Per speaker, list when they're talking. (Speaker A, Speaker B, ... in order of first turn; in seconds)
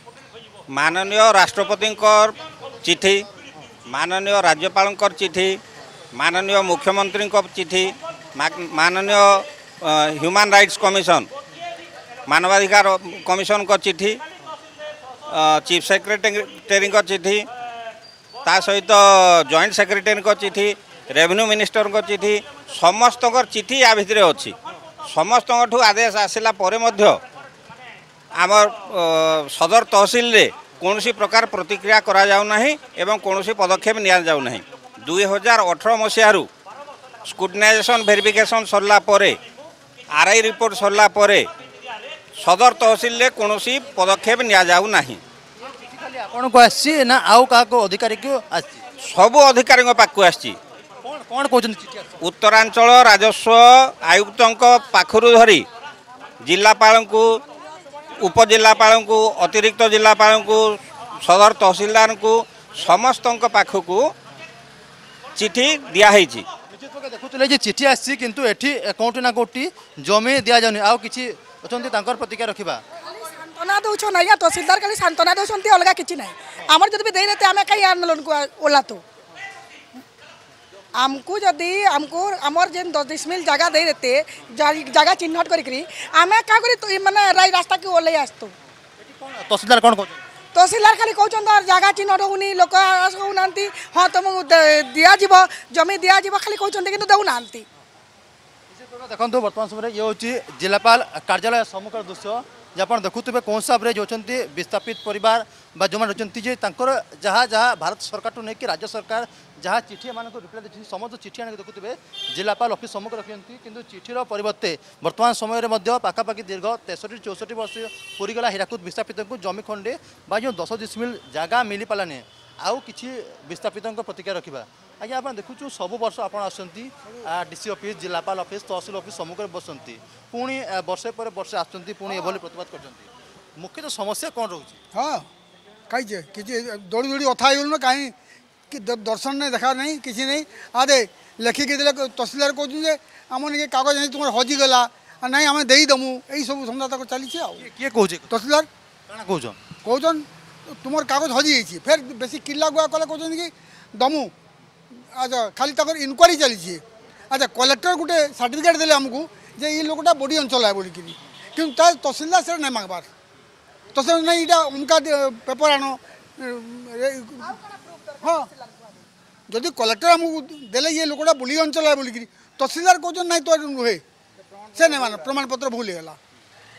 Speaker A: 0.7-3.2, 3.9-5.6, 6.1-11.3, 12.3-14.2, 15.3-17.4, 18.4-24.5, 25.1-27.2, 28.4-36.5, 37.2-39.4, 40.1-41.5, 42.4-45.2, 49.0-50.6, 52.2-55.6, 56.4-57.3, 58.2-64.0, 65.3-66.5
Speaker B: 45.6-48.8, 51.0-52.2, 66.7-72.8, 89.0-90.2, 98.7-134.8, 147.6-148.4, 149.1-149.6, 174.6-175.3
Speaker C: 73.1-79.0, 81.0-88.5, 90.5-97.6, 167.6-168.2
Speaker D: 134.9-135.3, 135.9-138.1, 138.7-147.6, 148.3-148.7, 149.8-154.3, 155.1-163.1, 163.9-167.6, 168.2-168.5, 169.5-174.0, 174.7-176.2